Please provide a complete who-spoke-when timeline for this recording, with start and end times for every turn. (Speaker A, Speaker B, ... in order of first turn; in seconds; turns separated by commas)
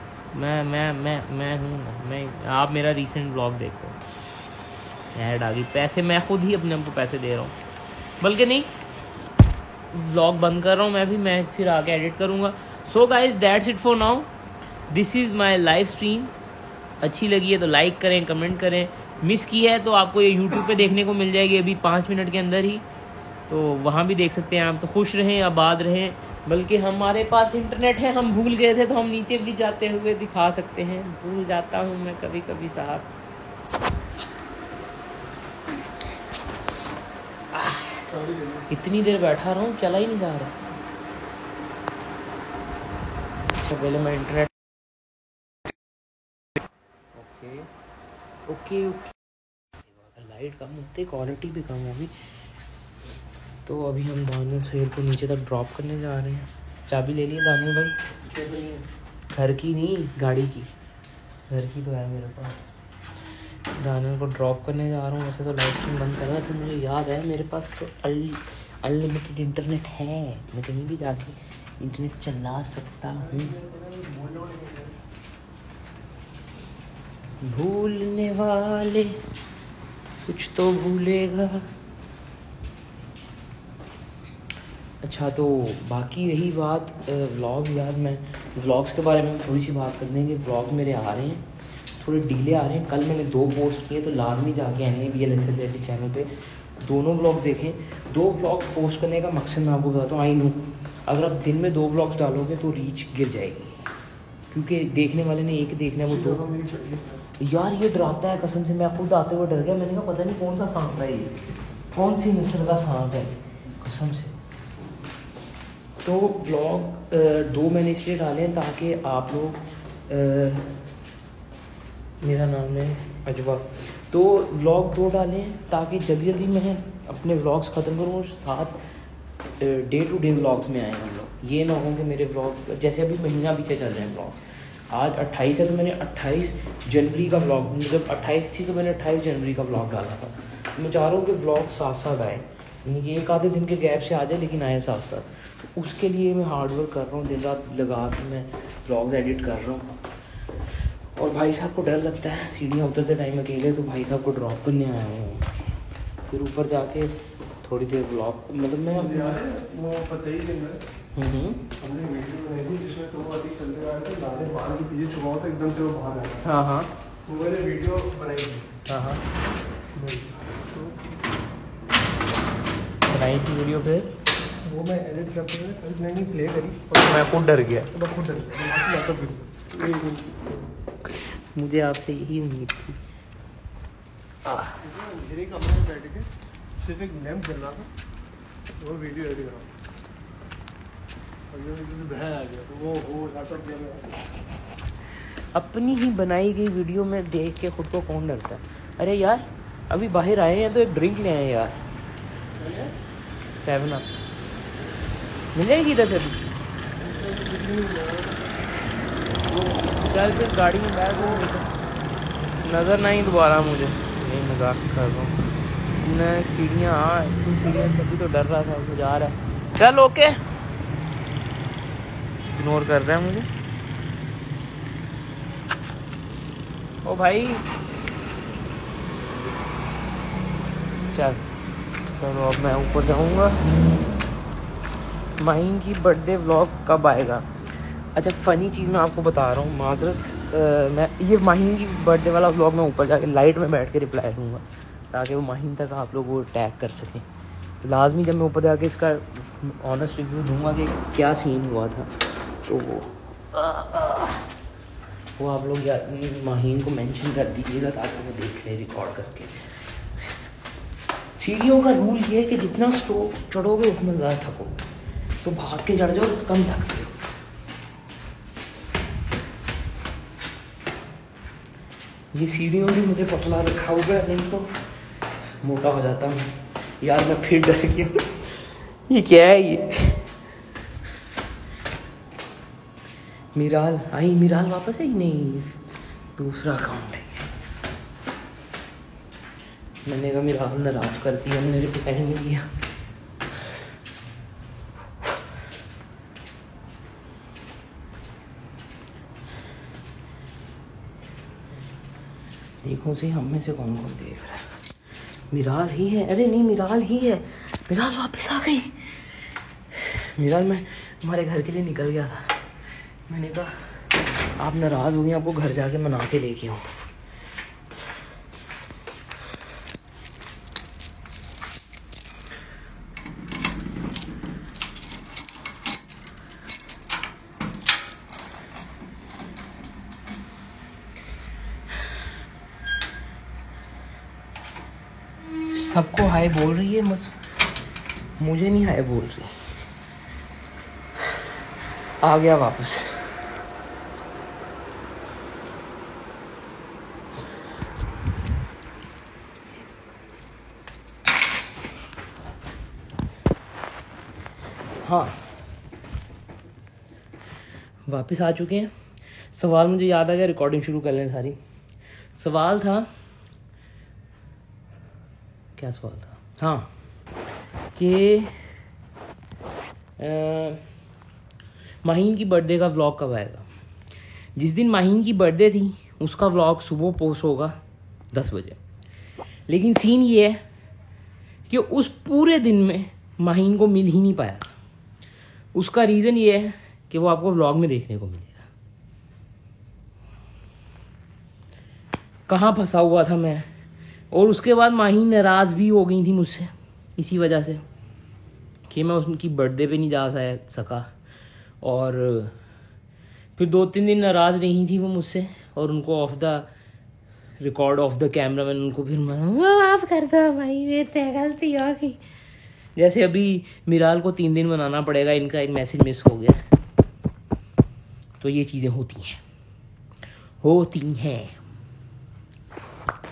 Speaker A: 0.3-4.0, Speaker A: 5.1-7.5, Speaker A: 8.2-8.7, Speaker A: 9.9-14.3, Speaker A: 14.9-16.3, Speaker A: 17.0-22.8, Speaker A: 23.5-33.1, Speaker A: 37.5-37.9, Speaker B: 38.1-38.6, Speaker A: 38.7-40.6, Speaker A: 43.5-44.5, Speaker A: 47.1-47.7, Speaker A: 48.5-49.2, Speaker A: 50.1-52.1, Speaker A: 53.6-58.0, Speaker B: 58.3-58.8, Speaker A: 59.3-60.7, Speaker A: 61.5-62.6, Speaker A: 63.7-73.5, Speaker B: 73.2-75.0, Speaker A: 77.4-79.2, Speaker A: 80.2-81.7, Speaker A: 85.0-91.4, Speaker A: 92.0-103.8, Speaker A: 104.5-106.4, Speaker B: 106.1-107.2, Speaker A: 107.4-111.3, Speaker A: 111.9-114.3, Speaker A: 116.0-120.8, Speaker A: 122.2-128.8, Speaker A: 129.6-150.0, Speaker A: 151.2-155.5, Speaker A: 156.3-159.4, Speaker B: 158.9-160.8, Speaker A: 161.1-161.7, Speaker B: 161.8-166.4, Speaker A: 166.4-166.9, Speaker B: 167.2-168.7, Speaker A: 168.9-169.2, Speaker B: 169.9-171.0, Speaker A: 173.1-174.1, Speaker B: 174.6-177.3, Speaker A: 177.0-177.9, Speaker B: 177.9-180.6, Speaker A: 181.1-183.0, Speaker A: 184.4-184.8, Speaker B: 184.8-187.9, Speaker B: 188.8-189.7, Speaker B: 191.5-194.3, Speaker A: 195.5-201.8, Speaker B: 202.6-202.9, Speaker A: 203.6-204.1, Speaker A: 205.5-206.4, Speaker B: 207.0-208.5, Speaker B: 209.4-210.1, Speaker A: 210.0-211.7, Speaker B: 211.1-211.4, Speaker A: 212.6-215.4, Speaker A: 216.0-220.4, Speaker A: 222.5-223.5, Speaker A: 227.0-227.6, Speaker A: 231.1-231.4, Speaker A: 232.2-233.7, Speaker A: 235.4-237.5, Speaker A: 238.1-247.2, Speaker A: 247.8-252.1, Speaker A: 252.6-254.4, Speaker A: 255.4-259.5, Speaker A: 261.4-264.8, Speaker A: 265.4-267.2, Speaker A: 272.3-274.7, Speaker A: 275.6-278.4, Speaker A: 279.1-280.2, Speaker A: 283.5-285.8, Speaker A: 286.4-287.5, Speaker A: 290.0-292.6, Speaker A: 302.8-304.7, Speaker A: 305.5-309.1, Speaker A: 309.9-312.6, Speaker A: 313.3-313.8, Speaker A: 314.6-316.8, Speaker A: 335.7-337.3, Speaker A: 338.4-339.5, Speaker A: 342.2-343.2, Speaker A: 355.0-355.5, Speaker A: 358.1-358.9, Speaker A: 359.5-361.6, Speaker A: 362.4-363.1, Speaker A: 365.8-366.9, Speaker A: 367.9-368.7, Speaker A: 370.2-370.9, Speaker A: 372.0-373.7, Speaker A: 374.6-377.8, Speaker A: 378.3-378.8, Speaker A: 379.7-380.6, Speaker A: 381.7-384.7, Speaker A: 385.7-388.7, Speaker A: 392.5-393.7, Speaker A: 394.3-397.8, Speaker A: 398.9-401.1, Speaker A: 401.8-402.5, Speaker A: 403.6-406.7, Speaker A: 407.6-412.2, Speaker A: 412.9-416.6, Speaker A: 418.4-419.4, Speaker A: 420.6-421.6